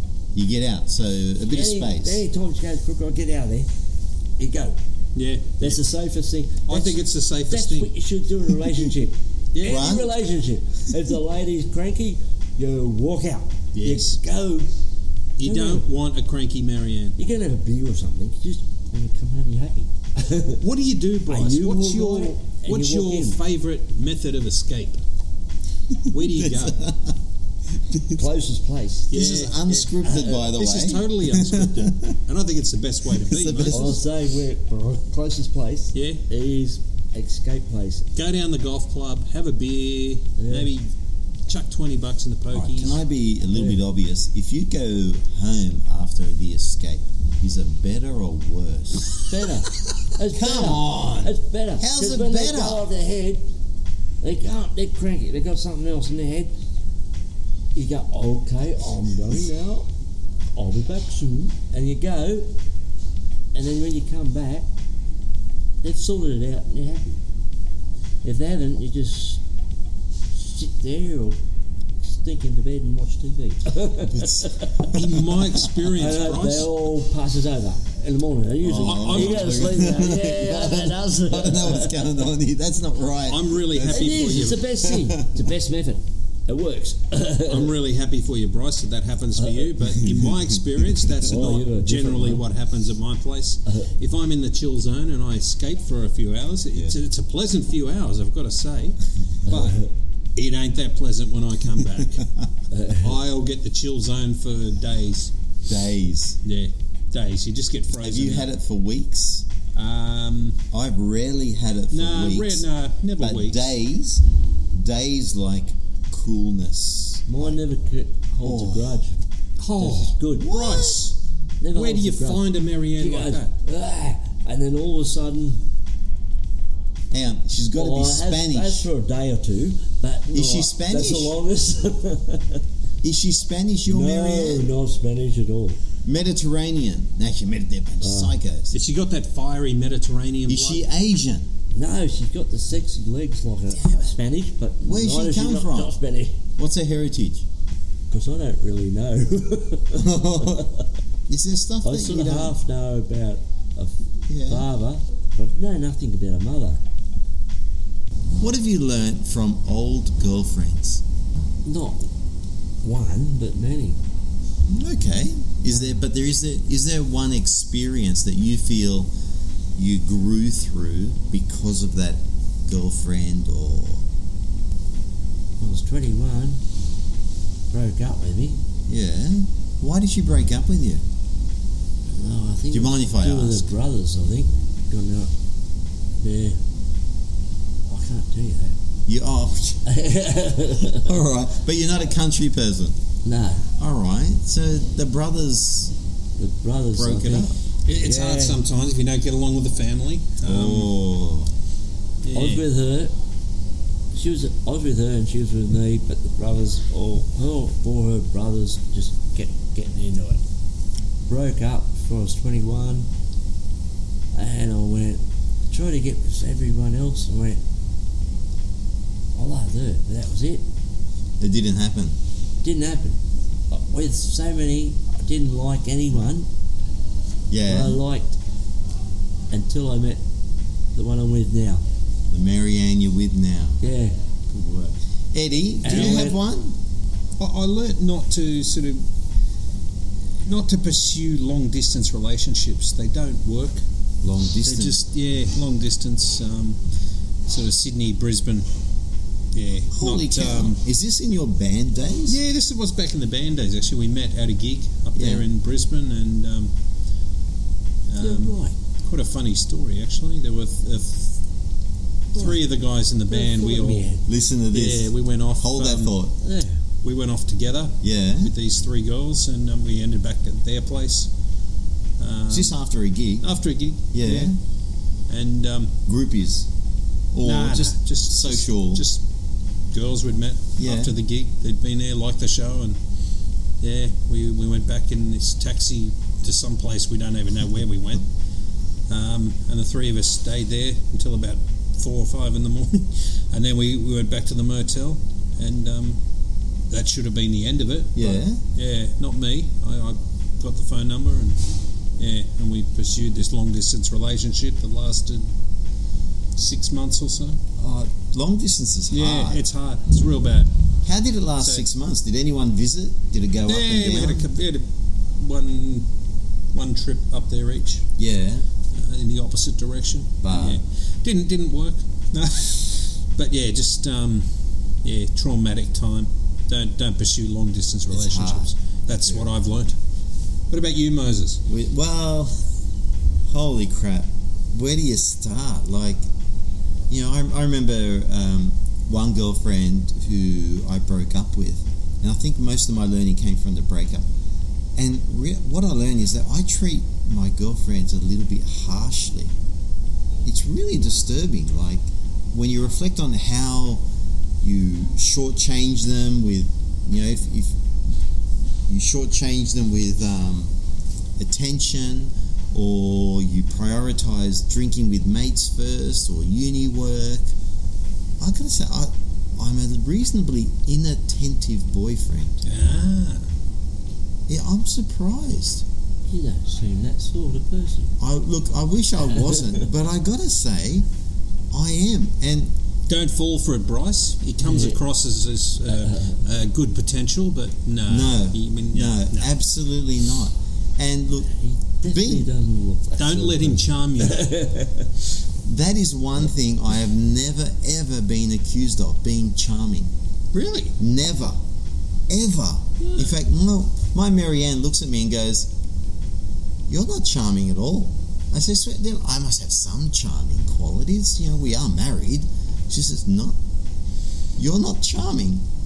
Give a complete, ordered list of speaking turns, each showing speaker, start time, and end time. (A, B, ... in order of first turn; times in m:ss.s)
0:00.3-0:02.2 A
0:01.5-0:03.7 B
0:04.4-0:04.8 B
0:05.1-0:05.8 C
0:05.6-0:14.7 B
0:06.7-0:07.9 C
0:09.5-0:09.9 C
0:09.6-0:10.1 A
0:13.7-0:14.2 C
0:15.4-0:17.2 C
0:15.4-0:15.8 B
0:17.2-0:20.6 B
0:20.6-0:25.0 C
0:21.3-0:23.4 B
0:26.0-0:27.2 A
0:26.1-0:26.8 C
0:27.9-0:28.2 A
0:28.1-0:29.1 B
0:29.1-0:32.2 A
0:29.1-0:34.0 C
0:33.2-0:34.0 A
0:33.7-0:38.1 B
0:35.9-0:36.2 C
0:38.2-0:40.9 C
0:40.4-0:40.7 B
0:41.5-0:43.0 C
0:42.5-0:49.3 A
0:43.5-0:43.8 B
0:49.3-0:53.4 B
0:50.2-0:52.8 A
0:54.2-0:56.5 B
0:57.7-0:59.9 B
1:00.5-1:02.5 B
1:03.5-1:04.7 B
1:05.8-1:07.2 B
1:08.2-1:09.4 B
1:10.4-1:11.4 B
1:12.0-1:15.0 B
1:14.0-1:15.6 A
1:14.9-1:16.7 C
1:15.9-1:22.0 B
1:18.6-1:25.5 A
1:18.8-1:19.8 C
1:23.2-1:24.6 C
1:23.9-1:27.7 B
1:27.4-1:42.2 C
1:29.4-1:29.7 B
1:30.0-1:30.3 A
1:31.2-1:32.4 B
1:39.4-1:39.9 B
1:42.0-1:42.5 A
1:42.7-1:43.1 B
1:42.9-1:45.3 C
1:45.6-1:46.4 A
1:46.4-1:48.5 C
1:48.0-1:49.4 A
1:49.7-1:50.6 C
1:50.7-1:52.7 A
1:51.9-1:53.7 C
1:53.2-1:57.6 A
1:57.3-1:59.2 B
1:58.4-1:59.0 A
1:59.6-2:01.2 C
1:59.8-2:00.5 B
2:00.3-2:01.1 A
2:01.6-2:05.6 B
2:01.7-2:03.5 C
2:07.1-2:08.9 A
2:07.7-2:12.6 B
2:10.3-2:11.4 A
2:13.0-2:14.7 A
2:13.9-2:15.8 B
2:16.0-2:18.7 A
2:18.0-2:18.4 B
2:18.7-2:20.8 C
2:20.4-2:21.5 A
2:21.7-2:26.4 B
2:23.7-2:24.1 A
2:24.8-2:26.0 A
2:26.6-2:27.4 A
2:28.1-2:30.9 B
2:29.9-2:30.7 A
2:31.3-2:32.6 A
2:31.8-2:36.8 B
2:34.3-2:34.7 A
2:38.4-2:41.0 A
2:41.6-2:42.1 B
2:42.8-2:44.0 B
2:44.7-2:49.1 A
2:49.7-2:54.0 A
2:55.6-2:56.6 B
2:57.7-2:58.6 B
2:58.9-3:01.0 A
3:02.1-3:05.3 B
3:02.7-3:03.7 A
3:06.2-3:06.6 B
3:07.9-3:08.8 B
3:09.1-3:09.8 A
3:09.8-3:11.1 B
3:10.9-3:13.0 A
3:13.2-3:13.7 B
3:13.8-3:15.9 A
3:16.4-3:18.6 B
3:16.9-3:17.6 A
3:17.8-3:20.9 C
3:20.4-3:21.5 A
3:22.2-3:22.7 C
3:22.3-3:23.1 B
3:24.1-3:30.4 B
3:31.3-3:33.1 B
3:34.3-3:37.6 B
3:39.3-3:40.6 B
3:41.4-3:42.2 A
3:42.6-3:43.2 B
3:43.7-3:46.5 B
3:47.5-3:48.0 A
3:47.6-3:48.4 B
3:49.5-3:50.2 B
3:50.9-3:51.8 B
3:52.3-3:53.8 A
3:53.8-3:54.2 B
3:54.5-3:56.8 A
3:55.8-3:56.4 B
3:55.9-3:56.3 C
3:57.4-3:59.0 C
4:00.4-4:03.8 C
4:04.2-4:05.0 A
4:04.6-4:06.8 C
4:07.5-4:08.7 C
4:09.5-4:10.8 C
4:09.9-4:12.4 A
4:12.3-4:16.7 C
4:15.1-4:15.4 A
4:18.1-4:21.4 C
4:18.2-4:18.7 B
4:22.3-4:22.6 B
4:22.3-4:24.2 C
4:23.3-4:24.2 B
4:24.2-4:26.4 A
4:24.7-4:26.2 C
4:26.4-4:26.8 B
4:27.0-4:31.3 C
4:28.0-4:28.5 A
4:32.2-4:32.8 C
4:32.5-4:33.5 A
4:33.4-4:34.5 C
4:34.1-4:34.6 A
4:35.3-4:35.9 C
4:36.0-4:36.7 A
4:37.3-4:39.0 A
4:37.4-4:39.2 C
4:39.9-4:43.0 C
4:40.8-4:41.1 A
4:43.8-4:48.3 C
4:49.1-4:56.2 C
4:56.9-5:01.6 C
4:58.1-4:58.6 A
5:02.2-5:05.5 C
5:06.6-5:07.6 C
5:07.8-5:09.6 A
5:09.1-5:10.7 C
5:11.0-5:14.5 A
5:11.6-5:11.8 C
5:13.7-5:16.1 C
5:16.7-5:18.0 C
5:18.2-5:18.7 A
5:18.9-5:24.5 C
5:20.4-5:20.8 A
5:25.0-5:30.0 C
5:28.1-5:28.7 A
5:29.2-5:29.5 A
5:30.7-5:31.6 C
5:31.6-5:32.7 A
5:33.5-5:36.2 A
5:37.1-5:44.3 A
5:45.0-5:49.5 A
5:50.4-5:54.0 A
5:54.6-5:57.8 A
5:58.9-6:00.7 A
6:01.4-6:07.5 A
6:08.4-6:12.6 A
6:12.6-6:13.4 C
6:14.5-6:15.8 A
6:16.3-6:18.1 B
6:18.2-6:21.1 A
6:19.3-6:19.8 B
6:21.7-6:22.7 A
6:23.1-6:29.5 C
6:24.6-6:25.0 B
6:25.9-6:26.4 B
6:28.0-6:31.5 A
6:31.5-6:35.1 B
6:32.1-6:32.5 A
6:33.2-6:34.6 C
6:35.6-6:40.1 A
6:40.5-6:40.9 C
6:41.0-6:41.6 A
6:42.3-6:45.7 A
6:46.9-6:53.6 A
6:54.6-6:55.6 A